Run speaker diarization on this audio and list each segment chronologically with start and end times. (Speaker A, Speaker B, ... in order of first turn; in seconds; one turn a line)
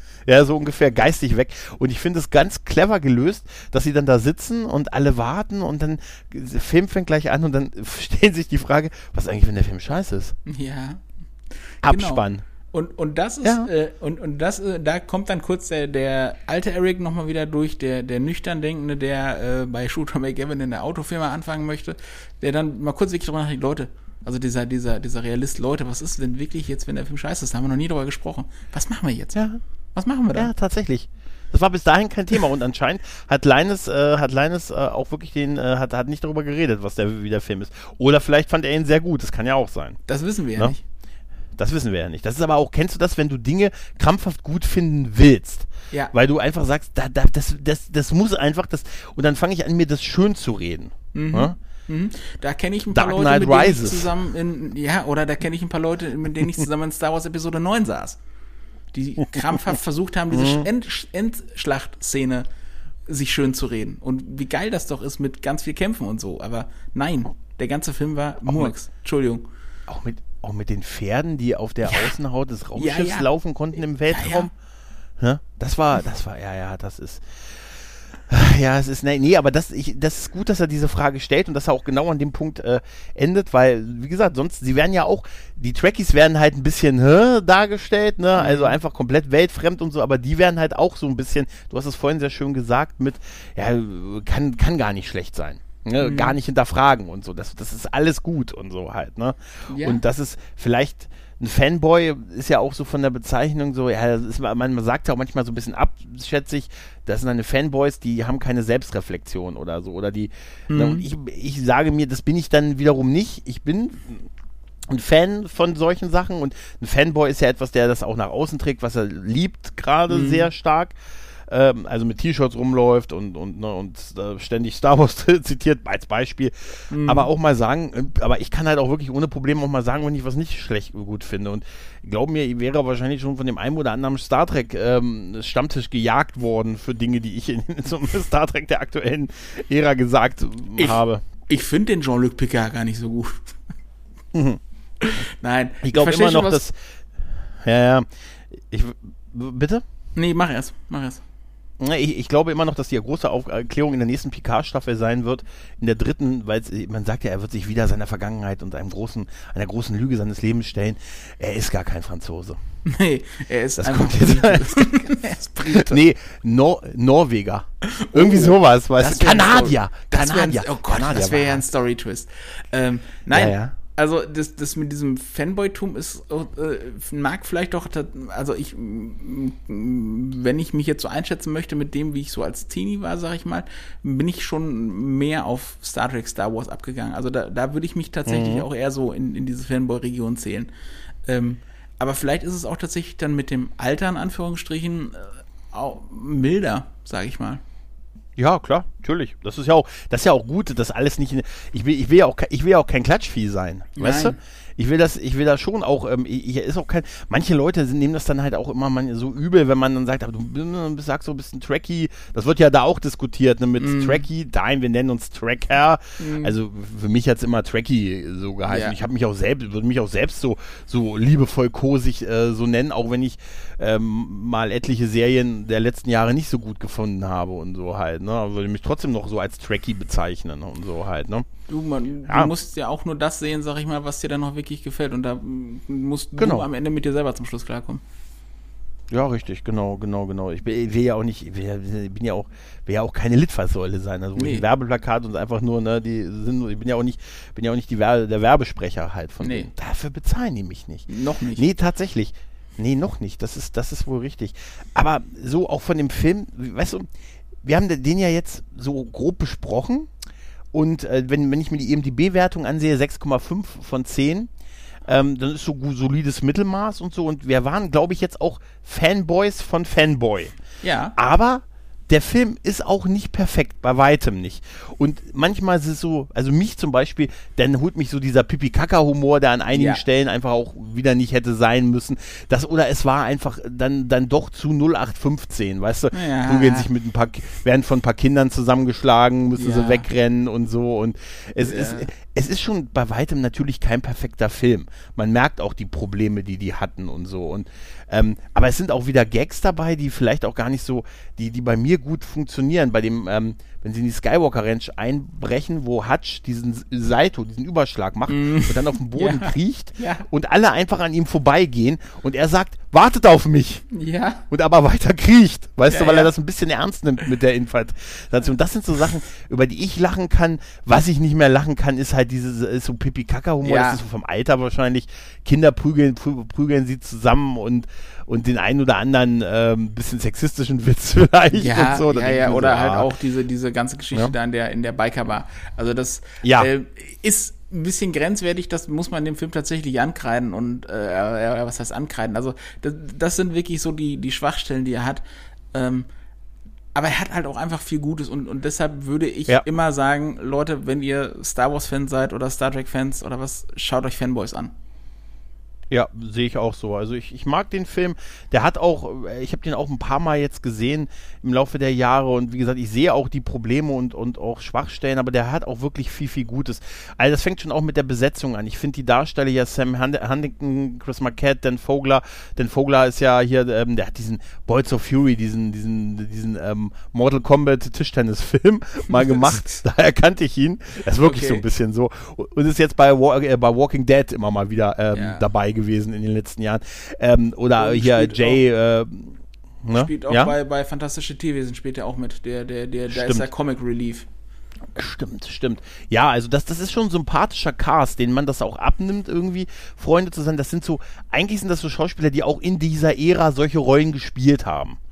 Speaker A: 0.3-10.3
Speaker B: 10.5-11.0
Speaker A: 11.8-12.4
Speaker B: 11.8-29.4
Speaker A: 13.4-13.7
Speaker A: 29.4-29.6
Speaker B: 29.9-30.5
Speaker A: 30.3-40.0
Speaker B: 40.1-40.8
Speaker A: 41.6-51.6
Speaker B: 51.1-58.2
Speaker A: 52.9-54.1
Speaker B: 58.9-62.5
Speaker A: 60.3-60.7
Speaker B: 63.1-69.5
Speaker A: 68.5-68.7
Speaker A: 69.9-74.5
Speaker B: 72.8-73.3
Speaker B: 74.1-74.5
Speaker A: 75.2-77.6
Speaker A: 78.3-114.3
Speaker B: 88.4-88.8
Speaker B: 96.0-96.4
Speaker B: 99.7-100.0
Speaker B: 110.7-111.0
Speaker A: 114.9-121.0
Speaker B: 120.1-120.5
Speaker A: 121.5-141.2
Speaker B: 126.9-127.3
Speaker B: 141.5-143.6
Speaker A: 144.3-144.6
Speaker B: 145.0-146.6
Speaker A: 145.8-146.8
Speaker A: 147.6-149.8
Speaker B: 150.2-151.2
Speaker A: 151.8-162.6
Speaker B: 162.9-166.0
Speaker A: 163.8-171.7
Speaker B: 167.8-190.7
Speaker A: 173.3-173.8
Speaker A: 188.3-188.7
Speaker B: 191.3-197.6
Speaker A: 198.4-231.5
Speaker B: 204.0-204.4
Speaker B: 213.8-214.2
Speaker B: 216.2-216.5
Speaker B: 218.7-219.0
Speaker B: 231.7-238.0
Speaker A: 236.4-236.7
Speaker A: 239.1-257.1
Speaker B: 244.4-244.6
Speaker B: 249.4-249.7
Speaker B: 251.1-251.7
Speaker A: 257.6-260.1
Speaker A: 260.7-264.5
Speaker A: 265.1-270.6
Speaker B: 270.8-271.1
Speaker A: 271.2-313.9
Speaker B: 279.7-280.0
Speaker B: 286.1-286.9
Speaker B: 289.6-290.1
Speaker B: 291.6-292.1
Speaker B: 308.3-310.2
Speaker B: 313.9-314.4
Speaker A: 314.5-333.1
Speaker B: 315.9-316.3
Speaker B: 323.6-324.0
Speaker B: 331.5-346.1
Speaker A: 336.4-336.7
Speaker B: 346.9-354.7
Speaker A: 355.9-390.5
Speaker B: 379.2-379.6
Speaker B: 381.2-381.6
Speaker B: 385.1-385.5
Speaker B: 387.8-388.6
Speaker B: 389.9-394.3
Speaker A: 393.1-393.5
Speaker A: 394.9-405.0